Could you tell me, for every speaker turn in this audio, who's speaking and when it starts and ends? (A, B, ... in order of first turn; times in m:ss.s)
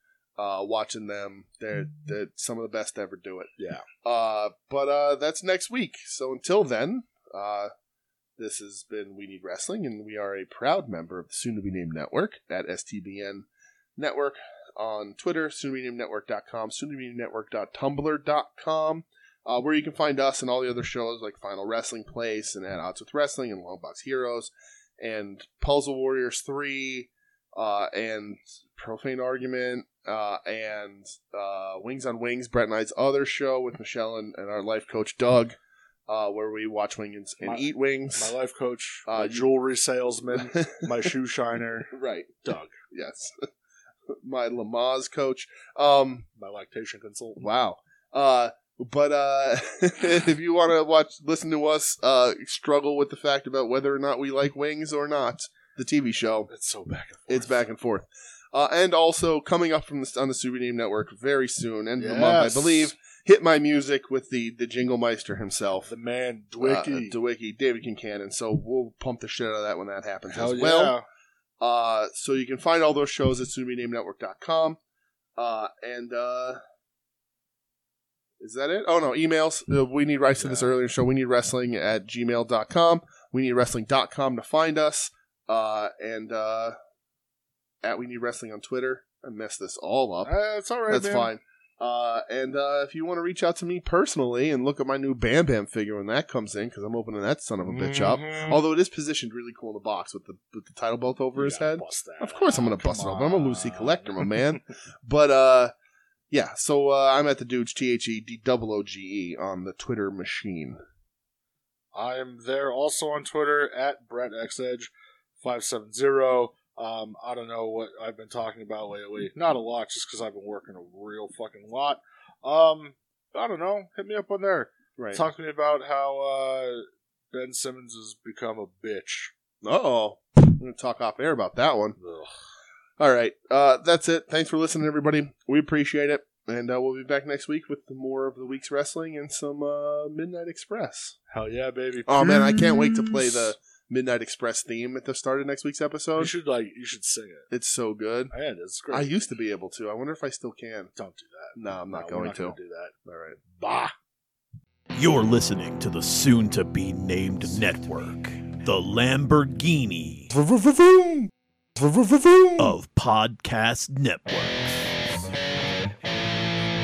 0:00.4-0:03.5 A
0:03.6-0:03.8 B
0:04.0-0:07.7 A
0:08.4-0:35.6 A
0:36.1-0:38.3 A
0:37.4-0:41.9 B
0:39.1-0:39.4 A
0:40.4-0:40.9 A
0:41.9-0:42.4 A
0:42.4-0:42.8 B
0:42.9-0:43.5 A
0:44.1-0:46.3 A
0:46.4-0:47.5 B
0:47.4-0:56.5 A
0:56.5-0:57.7 B
0:57.3-1:05.9 A
1:02.0-1:02.9 B
1:05.8-1:07.2 B
1:06.6-1:11.0 A
1:10.3-1:11.0 B
1:11.6-1:14.8 A
1:15.4-1:16.6 A
1:18.4-1:26.8 A
1:20.4-1:20.7 B
1:27.8-1:30.3 A
1:30.2-1:31.3 B
1:30.9-1:45.7 A
1:37.6-1:38.6 B
1:41.4-1:44.4 B
1:46.3-1:50.8 A
1:51.9-2:09.3 B
2:09.6-2:12.0 A
2:12.0-2:12.3 B
2:13.0-2:21.2 A
2:21.3-2:23.5 B
2:22.1-2:26.3 A
2:26.2-2:27.5 B
2:27.5-2:28.3 A
2:28.3-2:29.1 B
2:28.9-2:30.9 A
2:31.0-2:32.9 B
2:31.6-2:33.4 A
2:33.4-2:33.9 B
2:35.0-2:40.3 C
2:40.4-2:40.9 B
2:41.8-2:42.5 B
2:42.6-2:45.2 C